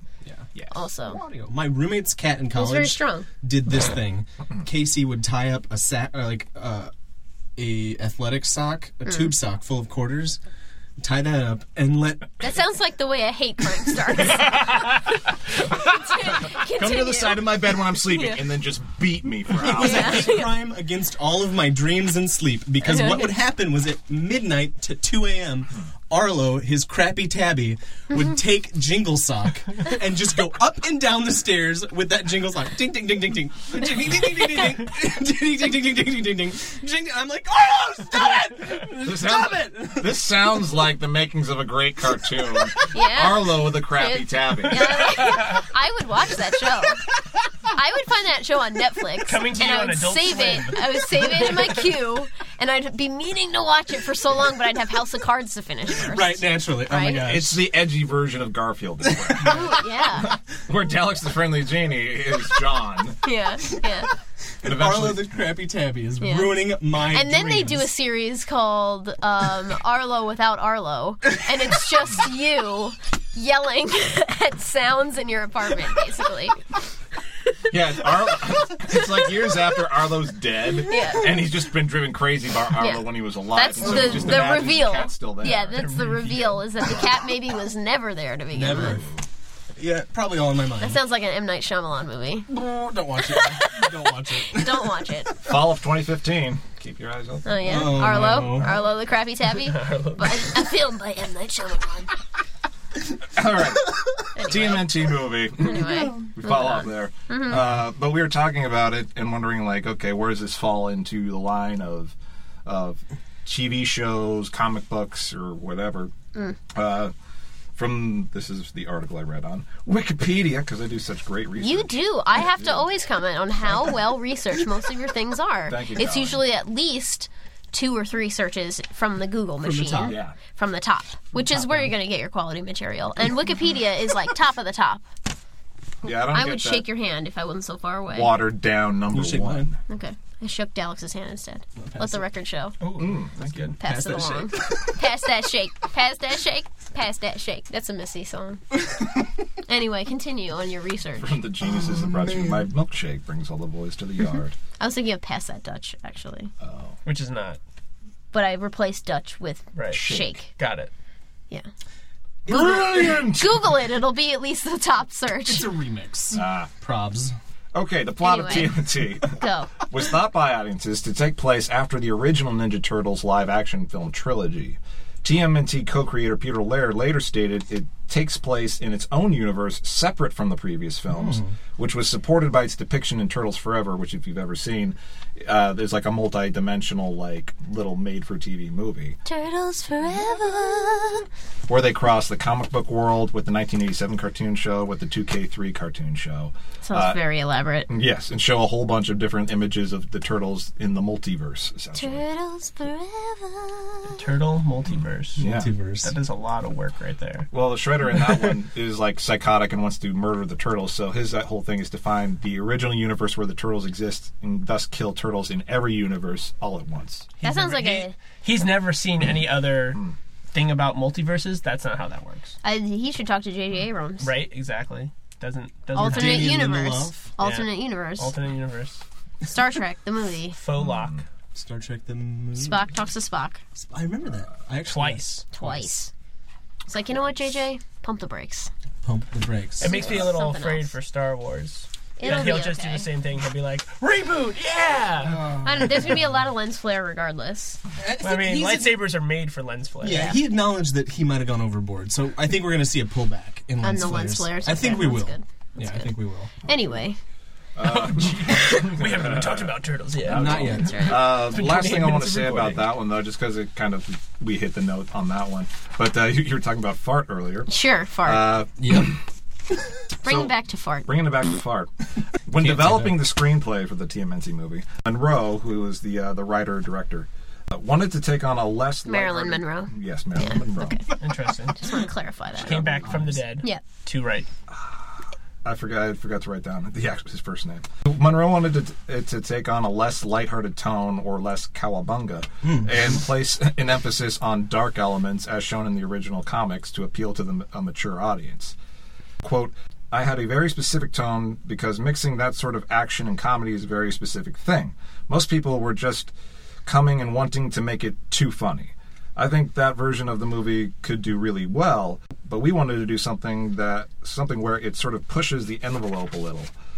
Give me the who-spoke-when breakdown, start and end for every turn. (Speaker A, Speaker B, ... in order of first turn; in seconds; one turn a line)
Speaker A: 0.7-1.2
Speaker B: 1.1-6.9
Speaker A: 2.5-3.3
Speaker B: 7.6-10.4
Speaker A: 9.1-9.3
Speaker B: 11.0-12.3
Speaker A: 12.4-14.9
Speaker A: 15.7-17.5
Speaker C: 16.2-20.4
Speaker A: 18.1-18.4
Speaker B: 19.6-40.6
Speaker A: 19.7-20.5
Speaker A: 22.8-23.3
Speaker C: 39.0-45.1
Speaker A: 42.9-47.0
Speaker D: 45.3-45.6
Speaker A: 47.7-57.3
Speaker D: 49.3-51.7
Speaker B: 55.9-57.7
Speaker C: 57.2-63.2
Speaker B: 59.0-59.7
Speaker A: 59.5-60.4
Speaker A: 63.2-64.1
Speaker B: 64.6-67.9
Speaker C: 64.6-65.5
Speaker A: 66.2-76.6
Speaker C: 77.7-85.8
Speaker A: 80.9-81.3
Speaker A: 82.8-89.0
Speaker D: 85.7-86.7
Speaker B: 88.5-89.0
Speaker C: 88.9-89.2
Speaker B: 89.8-91.0
Speaker A: 90.8-92.5
Speaker B: 92.5-95.1
Speaker A: 93.2-95.4
Speaker C: 95.4-98.9
Speaker A: 97.5-102.1
Speaker B: 97.7-98.7
Speaker D: 99.6-100.5
Speaker C: 103.3-116.1
Speaker A: 104.3-105.0
Speaker A: 105.6-107.6
Speaker C: 116.7-117.1
Speaker C: 117.8-121.9
Speaker A: 121.6-135.0
Speaker C: 122.5-122.8
Speaker C: 125.7-126.4
Speaker B: 129.6-130.2
Speaker C: 130.1-130.4
Speaker B: 131.4-131.9
Speaker C: 136.0-136.9
Speaker A: 136.1-138.3
Speaker C: 138.1-139.8
Speaker B: 139.1-139.7
Speaker A: 139.9-142.8
Speaker B: 141.8-142.2
Speaker D: 142.8-143.8
Speaker C: 143.0-143.8
Speaker A: 143.8-148.6
Speaker B: 143.8-145.0
Speaker A: 149.6-151.4
Speaker C: 151.2-154.6
Speaker A: 154.8-156.5
Speaker C: 156.6-157.0
Speaker D: 157.1-157.6
Speaker A: 158.3-160.5
Speaker D: 159.8-160.9
Speaker C: 159.9-160.3
Speaker C: 162.5-163.7
Speaker A: 162.5-165.7
Speaker B: 165.5-167.4
Speaker C: 166.3-166.7
Speaker C: 167.7-189.2
Speaker A: 168.2-169.7
Speaker B: 181.1-181.5
Speaker A: 189.2-191.3
Speaker C: 191.7-197.2
Speaker A: 196.8-197.9
Speaker C: 197.9-202.2
Speaker A: 201.9-204.2
Speaker D: 204.1-205.5
Speaker C: 205.4-205.7
Speaker B: 205.4-206.1
Speaker D: 206.0-207.5
Speaker C: 207.5-217.3
Speaker D: 217.4-220.0
Speaker A: 217.4-218.1
Speaker D: 220.5-222.5
Speaker A: 222.6-224.3
Speaker D: 224.2-226.7
Speaker A: 225.9-228.3
Speaker B: 226.0-227.2
Speaker D: 227.4-229.0
Speaker A: 229.4-230.6
Speaker D: 230.5-231.2
Speaker C: 230.8-231.2
Speaker B: 231.6-232.8
Speaker A: 232.6-233.6
Speaker B: 233.8-235.9
Speaker D: 234.9-235.4
Speaker A: 235.5-236.1
Speaker A: 236.9-238.7
Speaker B: 239.0-240.0
Speaker D: 239.8-245.4
Speaker A: 239.8-240.9
Speaker A: 242.2-243.1
Speaker B: 245.2-246.4
Speaker A: 245.6-247.8
Speaker B: 248.0-249.1
Speaker D: 248.2-250.3
Speaker B: 250.0-256.5
Speaker A: 250.0-250.4
Speaker A: 253.8-256.1
Speaker A: 256.6-257.2
Speaker C: 257.8-267.7
Speaker D: 257.8-262.9
Speaker B: 260.3-261.4
Speaker A: 260.6-261.3
Speaker A: 267.7-268.6
Speaker C: 268.2-269.2
Speaker B: 268.8-269.1
Speaker A: 270.2-271.1
Speaker C: 270.2-271.9
Speaker C: 272.5-281.1
Speaker B: 272.6-273.2
Speaker A: 279.1-281.2
Speaker D: 281.2-281.9
Speaker A: 281.7-283.8
Speaker D: 282.6-284.5
Speaker C: 282.6-283.3
Speaker C: 284.7-298.8
Speaker B: 292.6-293.2
Speaker C: 299.4-306.3
Speaker C: 306.9-316.7